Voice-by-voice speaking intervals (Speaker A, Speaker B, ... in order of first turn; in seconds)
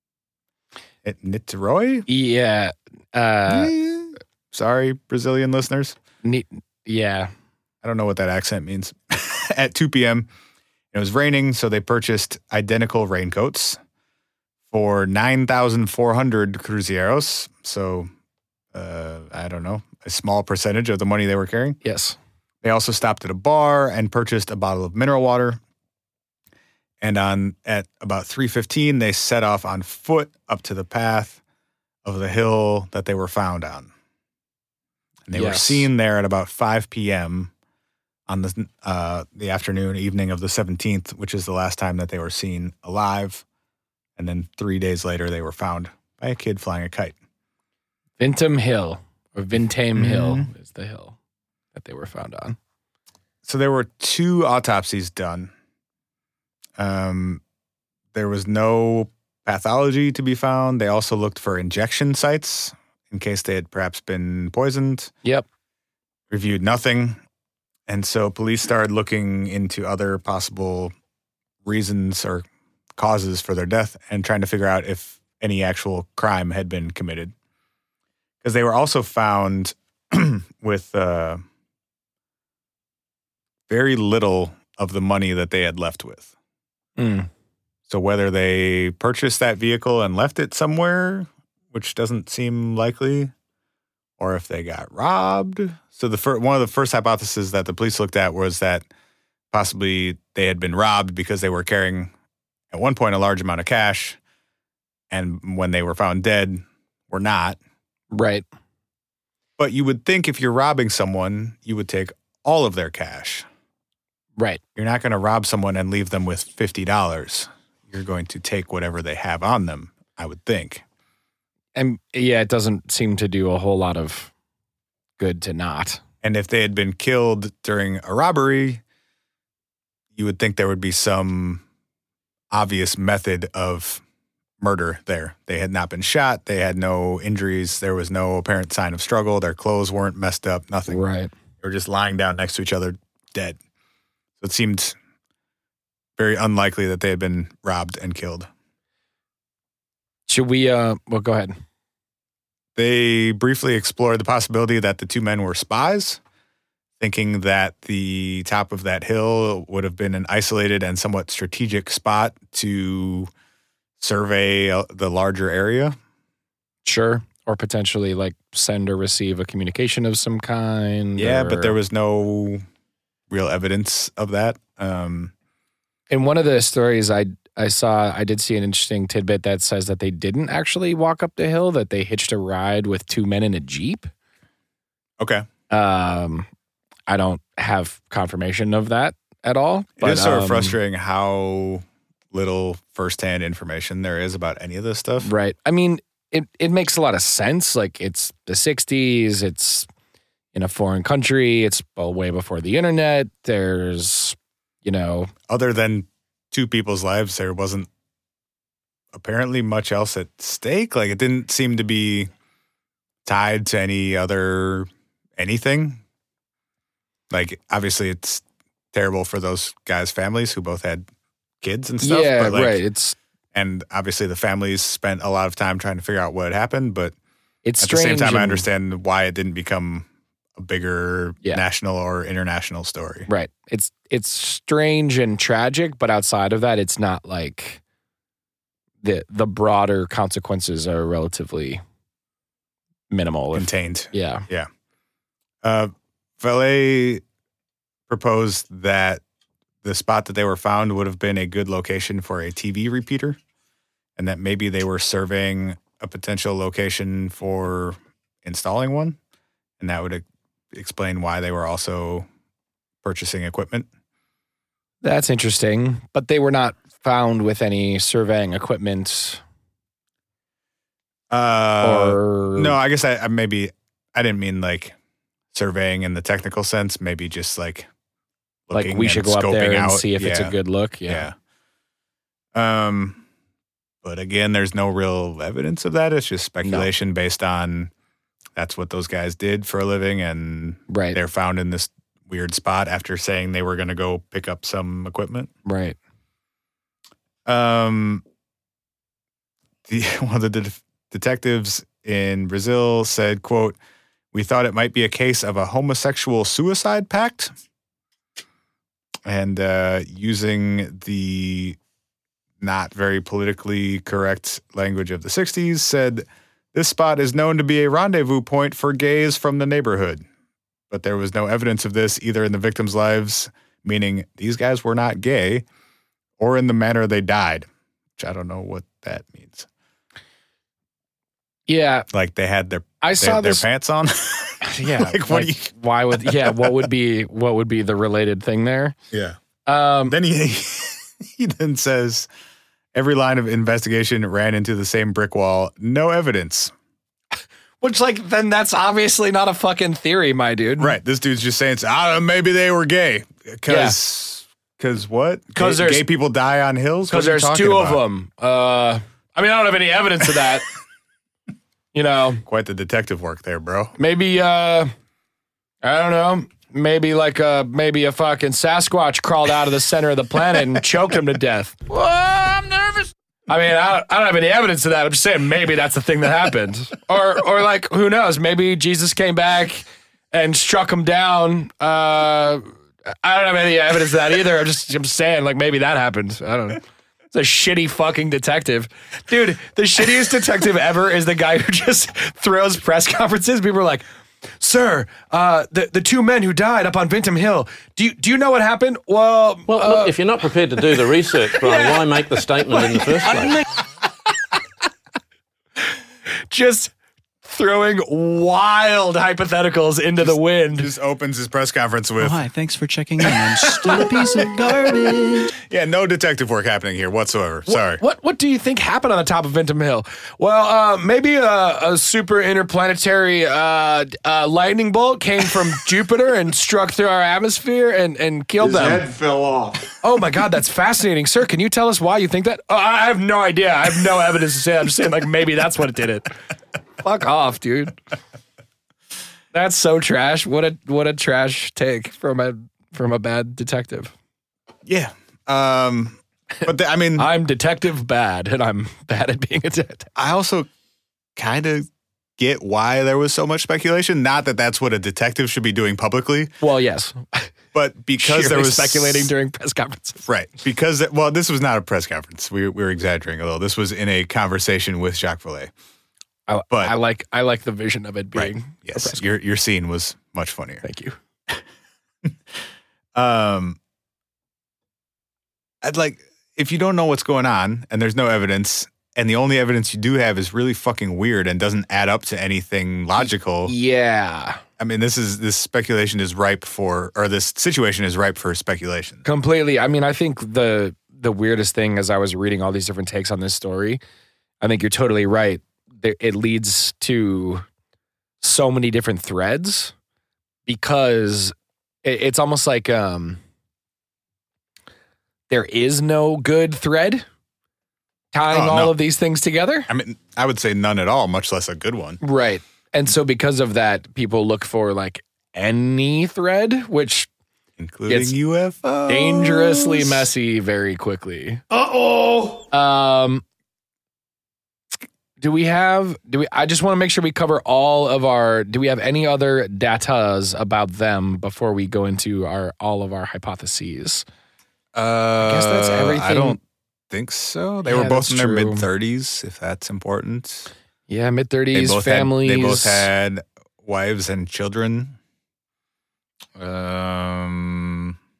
Speaker A: 1.0-2.1, 3.5-6.0, 7.8-10.3, 10.9-13.8, 14.7-18.1, 18.7-21.8, 22.6-25.6, 27.0-31.4, 32.0-33.9, 35.2-37.5, 38.3-43.4, 44.2-47.1, 50.0-50.5, 53.4-55.5, 56.8-57.4, 58.1-65.1, 66.3-67.2, 67.9-70.9, 71.6-72.4, 73.0-77.3, 78.4-81.4, 83.7-86.3, 87.9-93.3, 94.2-98.8, 99.5-102.1, 102.7-104.2, 105.1-107.6, 109.6-113.5, 114.8-120.8, 126.2-128.8, 130.1-131.6, 132.5-134.0, 134.6-141.0, 141.6-143.6, 144.4-145.0, 146.2-148.5, 152.8-156.2, 157.0-163.3, 164.0-165.9, 171.2-172.6, 173.3-175.3, 185.2-185.4, 190.0-195.3, 205.5-207.9, 209.1-212.3, 213.2-216.0, 217.3-221.1, 221.6-222.8, 223.5-227.1, 227.8-233.3, 243.5-244.7, 245.6-247.2, 248.1-249.2, 249.8-253.4, 254.2-259.2, 259.8-262.3, 263.0-263.9, 271.3-274.9, 275.5-277.9, 278.7-280.6, 281.1-281.3, 282.5-283.2, 284.0-287.9, 288.6-295.5, 297.4-298.2, 299.9-303.8, 304.3-307.5, 309.2-311.8, 312.6-320.2, 320.9-325.6, 326.4-329.7, 332.1-336.9, 340.1-342.3, 342.9-346.7, 350.8-358.0, 362.4-363.9, 410.2-412.5, 413.3-418.0, 428.6-429.9, 444.9-447.3, 450.1-450.7, 451.4-451.9, 452.4-456.5, 457.7-459.3, 460.2-465.7, 468.3-470.8, 473.1-473.8, 475.8-483.7, 484.8-489.2, 508.5-508.9, 509.9-512.2, 517.8-520.3, 522.0-522.6, 534.9-536.6, 537.1-540.7, 541.7-545.2, 546.6-548.1
Speaker B: 2.1-3.7, 6.2-7.3, 21.8-22.2, 35.3-35.9, 48.2-51.1, 51.7-52.6, 87.0-87.3, 108.1-108.4, 121.8-124.3, 125.2-126.0, 140.9-141.3, 150.3-151.5, 166.8-171.8, 176.1-184.1, 185.7-186.5, 187.1-190.8, 195.2-199.9, 200.5-205.3, 222.0-223.2, 227.6-228.7, 233.3-237.8, 239.0-241.8, 243.1-244.4, 265.0-269.4, 271.8-272.8, 278.7-281.3, 286.6-286.9, 290.9-291.2, 295.6-296.0, 331.7-332.1, 333.0-333.6, 334.6-338.9, 339.6-340.1, 347.8-351.0, 353.7-353.9, 355.5-356.0, 357.1-360.6, 361.9-362.4, 364.0-364.9, 365.8-372.8, 373.5-386.8, 387.3-394.0, 394.6-400.1, 401.5-402.0, 402.7-403.5, 406.5-406.9, 407.4-410.9, 417.7-429.0, 430.0-436.3, 437.0-437.9, 439.5-444.1, 447.1-450.1, 456.6-457.5, 458.2-460.2, 466.5-469.2, 470.8-471.1, 483.2-484.6, 489.2-494.0, 494.6-497.6, 498.4-499.9, 500.6-503.4, 505.5-507.2, 508.3-509.9, 512.2-517.3, 518.1-518.4, 519.1-521.6, 522.7-523.4, 525.4-534.2, 535.4-536.6, 537.8-538.9, 541.1-543.1
Speaker C: 399.7-403.6
Speaker D: 412.2-415.5